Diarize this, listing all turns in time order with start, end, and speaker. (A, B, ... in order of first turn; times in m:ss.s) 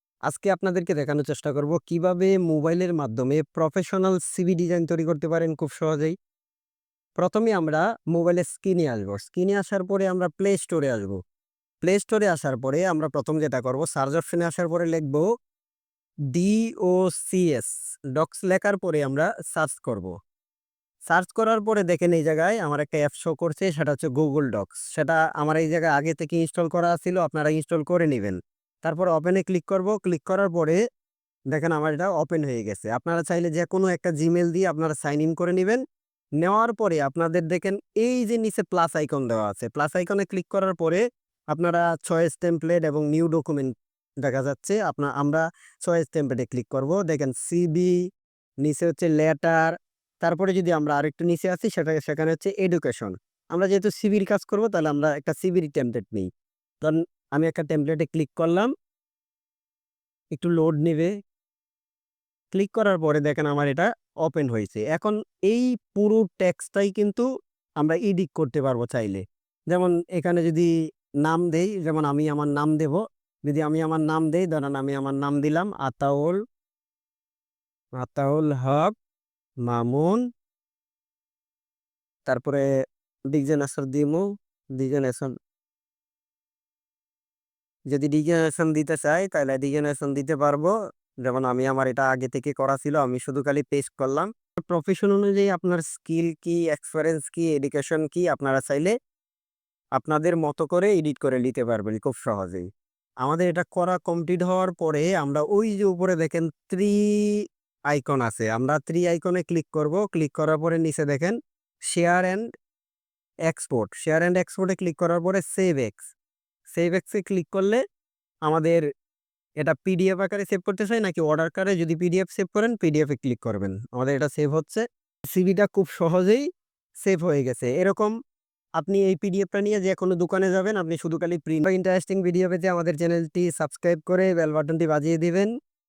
0:00.3-0:06.2 A
0:07.2-0:11.2 A
0:11.8-0:15.2 A
0:16.3-0:20.1 A
0:21.1-0:30.8 A
0:31.5-0:35.8 A
0:36.4-0:48.0 A
0:48.6-0:56.3 A
0:56.8-0:58.7 A
1:00.3-1:01.1 A
1:02.5-1:07.3 A
1:07.8-1:10.7 A
1:11.2-1:16.4 A
1:18.0-1:18.9 A
1:19.7-1:20.2 A
1:22.2-1:22.7 A
1:23.3-1:24.2 A
1:24.8-1:25.3 A
1:27.9-1:30.7 A
1:31.2-1:38.9 A
1:40.0-1:42.7 A
1:43.2-1:51.4 A
1:51.9-1:52.4 A
1:53.5-1:56.1 A
1:56.7-1:57.8 A
1:58.4-1:58.8 A
1:59.6-2:06.5 A
2:07.0-2:08.2 A
2:08.8-2:15.5 A